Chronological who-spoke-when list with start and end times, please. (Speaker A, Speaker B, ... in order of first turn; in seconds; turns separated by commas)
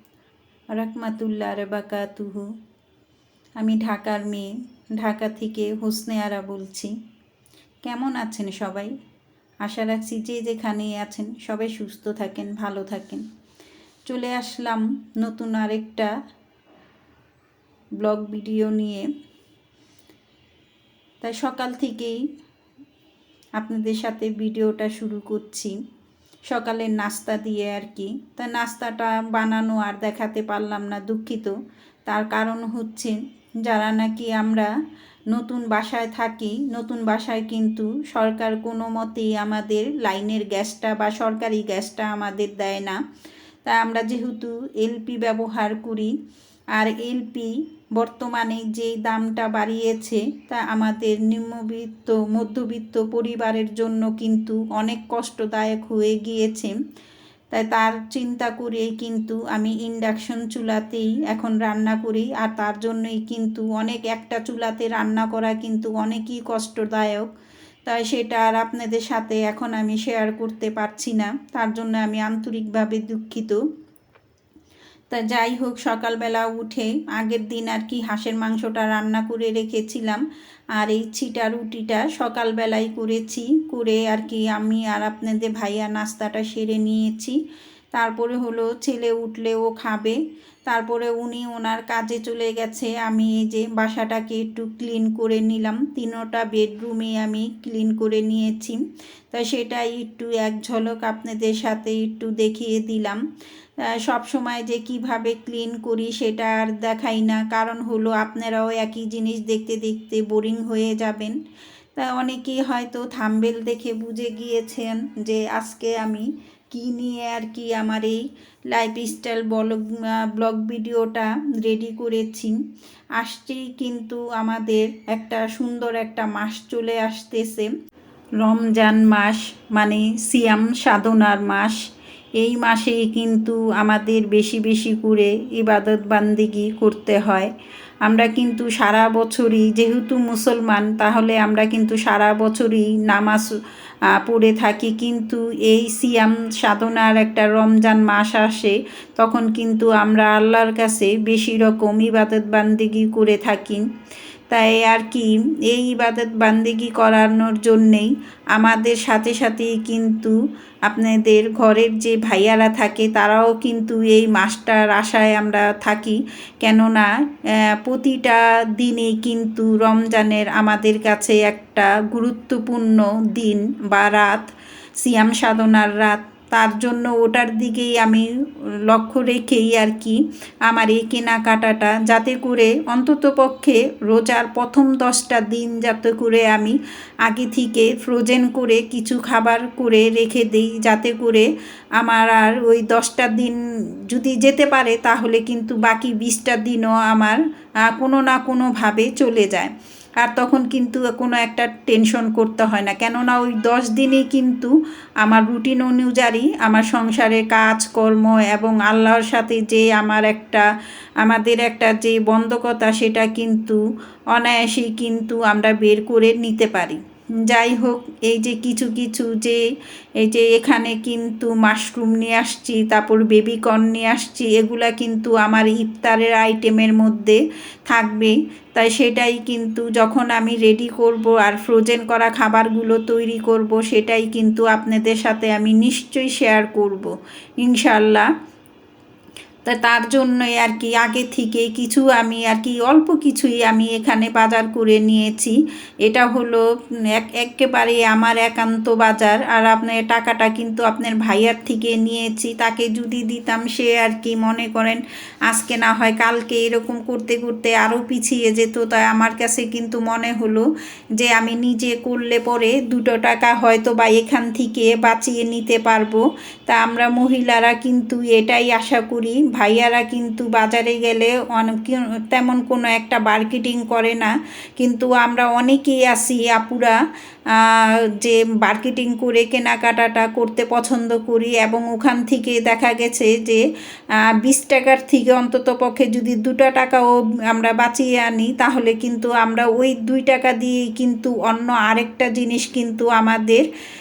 Speaker A: 0.7-2.5, Speaker A: 3.6-6.9, Speaker A: 7.8-8.9, Speaker A: 9.6-13.2, Speaker A: 14.1-16.1, Speaker A: 18.0-19.1, Speaker A: 21.2-22.2, Speaker A: 23.6-25.8, Speaker A: 26.5-31.5, Speaker A: 32.1-34.7, Speaker A: 35.3-43.0, Speaker A: 43.6-46.1, Speaker A: 46.7-56.7, Speaker A: 57.5-67.3, Speaker A: 67.8-73.6, Speaker A: 75.1-80.2, Speaker A: 80.8-87.4, Speaker A: 87.9-103.2, Speaker A: 103.8-111.4, Speaker A: 111.9-122.6, Speaker A: 123.2-127.7, Speaker A: 128.4-131.8, Speaker A: 132.4-137.5, Speaker A: 138.0-143.5, Speaker A: 144.1-153.8, Speaker A: 154.5-160.3, Speaker A: 160.9-178.3, Speaker A: 178.9-191.5, Speaker A: 192.0-210.7, Speaker A: 211.2-213.8, Speaker A: 214.3-219.6, Speaker A: 220.2-238.3, Speaker A: 239.6-260.6, Speaker A: 261.2-277.0, Speaker A: 277.5-283.6, Speaker A: 284.2-293.7